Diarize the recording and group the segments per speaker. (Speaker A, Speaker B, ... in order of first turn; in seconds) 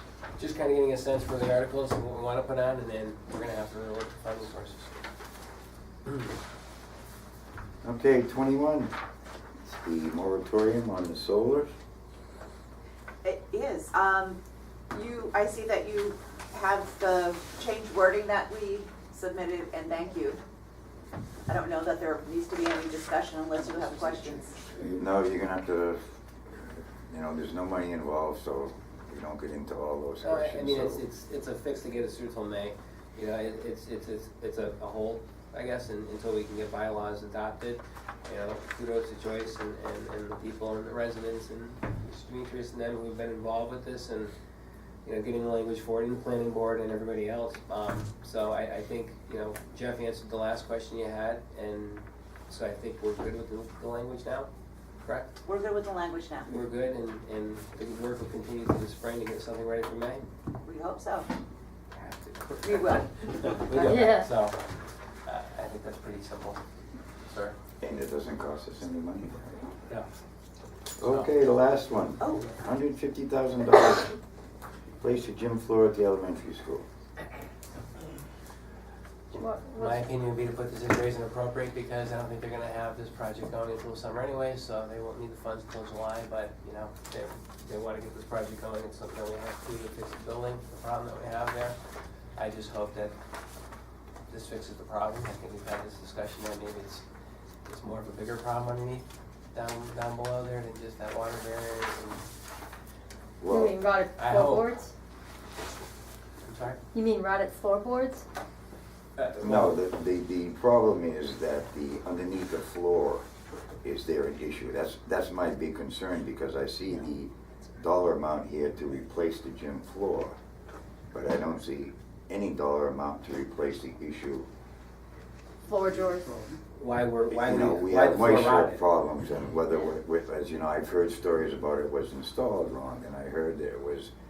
Speaker A: 0.4-5.0, 30.2-44.3, 45.0-54.5, 55.0-55.3, 56.5-60.2, 61.9-64.7, 65.2-66.6, 67.3-67.6, 71.1-71.3, 79.8-91.8, 92.4-93.2, 94.3-97.0, 97.7-102.2, 104.2-104.7, 106.4-106.8, 109.2-109.8, 126.8-128.8
Speaker B: 7.8-8.9, 9.6-11.7, 24.8-26.0, 26.8-31.1, 67.8-69.7, 71.0-74.2, 75.0-76.9, 103.4-103.8, 109.3-113.2, 113.8-120.4, 121.1-124.5, 127.3-134.1
Speaker C: 13.2-14.4, 14.9-20.4, 21.5-24.6, 55.4-56.5, 60.6-61.3, 62.6-64.1, 72.2-72.5
Speaker D: 79.4-80.1, 103.5-104.9, 106.9-108.2, 125.7-126.3